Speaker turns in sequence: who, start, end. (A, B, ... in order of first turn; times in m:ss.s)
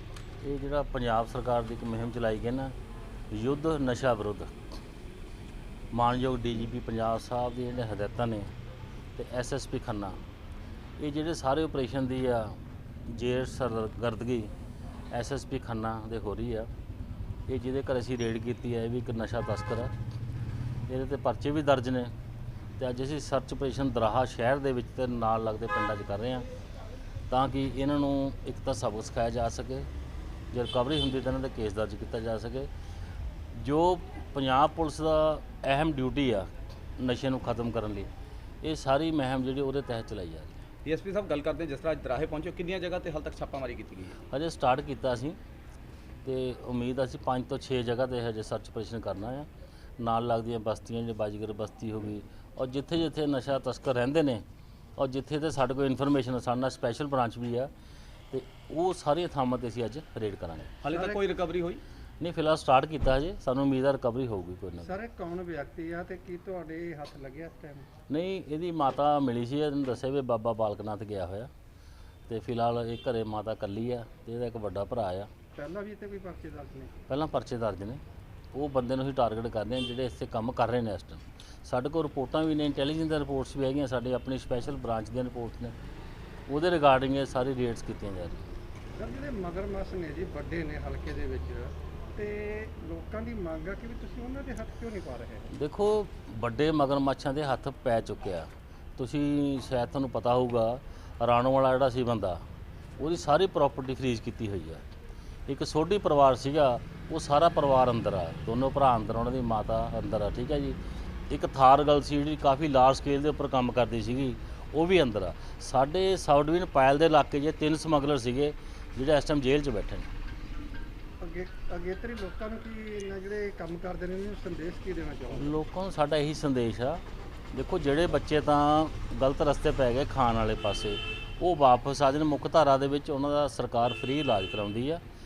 0:00.4-0:02.7 A
0:03.3-0:04.5 A
0:05.9-0:08.5 A
0:09.2-0:10.2 A
0:11.0-0:14.5 A
0:15.1-0:16.7 A
0:17.5-0:19.9 A
0:20.9-0:22.1 A
0:22.8-0:26.4 A
0:27.3-0:29.9 A
0:30.5-0:32.7 A
0:33.5-0:38.1 A
0:38.6-0:40.6 A
0:40.8-0:44.2 B
0:44.3-0:45.4 A
0:46.2-0:49.5 A
0:50.0-0:54.4 A
0:55.0-0:57.7 A
0:58.3-1:00.8 A
1:00.8-1:01.8 B
1:00.9-1:01.2 C
1:02.2-1:04.9 A
1:04.8-1:07.9 C
1:08.1-1:11.5 A
1:12.3-1:15.3 A
1:15.6-1:16.9 C
1:17.1-1:18.0 A
1:18.5-1:25.7 A
1:26.5-1:28.5 A
1:29.0-1:35.5 C
1:35.5-1:42.4 A
1:43.0-1:44.8 A
1:45.5-1:50.8 A
1:51.3-2:00.1 A
2:01.2-2:05.6 C
2:05.3-2:07.0 A
2:07.5-2:15.0 A